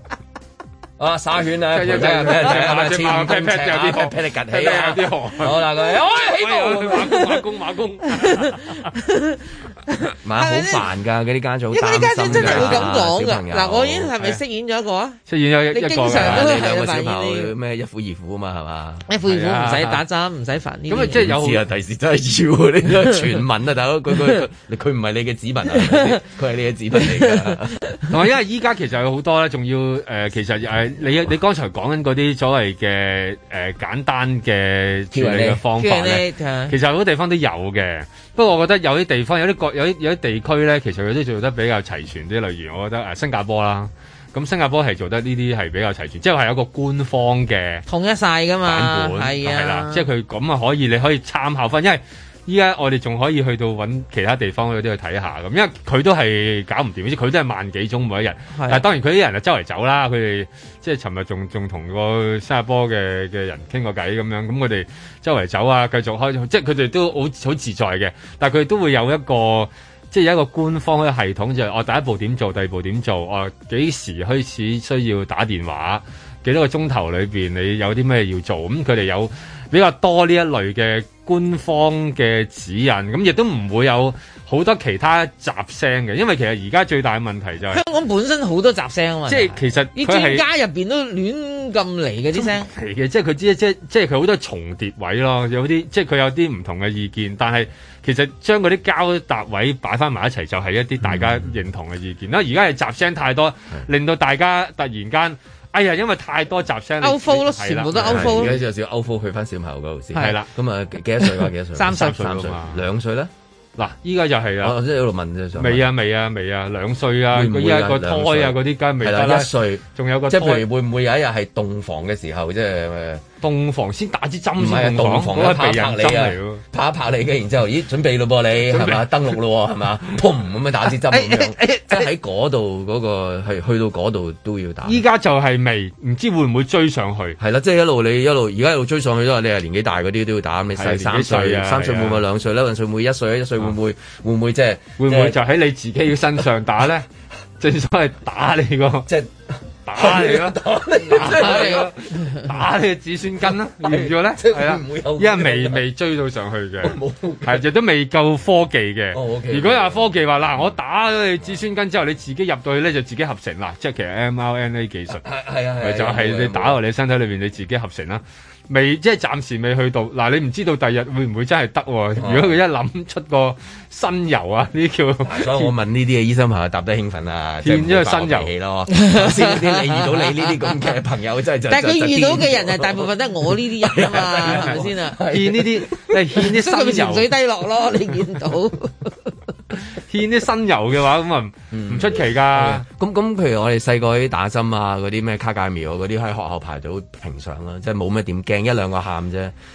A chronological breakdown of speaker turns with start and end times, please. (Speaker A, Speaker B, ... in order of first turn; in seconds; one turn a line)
Speaker A: 1.0-7.2
Speaker B: 1.7-8.9
Speaker C: 8.2-10.9
Speaker A: 10.2-14.1
Speaker C: 11.7-15.2
Speaker B: 12.3-13.0
Speaker B: 15.3-16.6
Speaker C: 15.7-17.5
Speaker A: 16.1-19.1
Speaker C: 19.1-21.2
Speaker B: 19.3-20.0
Speaker B: 20.9-21.6
Speaker A: 21.0-28.0
Speaker C: 25.9-26.2
Speaker B: 28.1-47.9
Speaker A: 35.1-35.6
Speaker C: 35.8-36.7
Speaker C: 47.9-50.0
Speaker B: 48.6-87.8
Speaker C: 58.5-58.8
Speaker C: 87.7-92.7
Speaker B: 89.3-90.4
Speaker B: 92.3-108.6
Speaker A: 101.0-101.5
Speaker C: 107.0-108.5
Speaker A: 108.0-113.3
Speaker B: 110.2-110.5
Speaker C: 111.8-112.4
Speaker B: 112.0-112.8
Speaker B: 113.8-114.8
Speaker A: 114.6-115.9
Speaker B: 115.6-120.7
Speaker A: 117.3-123.2
Speaker B: 123.4-126.6
Speaker A: 124.6-135.0
Speaker B: 128.7-129.2
Speaker C: 131.4-132.0
Speaker B: 134.8-137.4
Speaker A: 137.4-145.4
Speaker B: 140.8-142.2
Speaker B: 145.0-147.1
Speaker B: 147.6-149.1
Speaker A: 149.1-151.9
Speaker B: 149.9-165.2
Speaker C: 151.3-152.4
Speaker A: 153.4-155.8
Speaker A: 156.8-157.6
Speaker A: 159.1-160.7
Speaker A: 165.1-166.8
Speaker B: 165.8-175.7
Speaker A: 172.2-172.6
Speaker A: 175.2-183.0
Speaker B: 177.6-178.5
Speaker C: 178.9-180.3
Speaker C: 181.7-185.2
Speaker A: 183.8-186.1
Speaker B: 184.5-184.7
Speaker B: 185.3-187.3
Speaker C: 186.4-189.1
Speaker B: 190.1-192.8
Speaker A: 191.7-199.5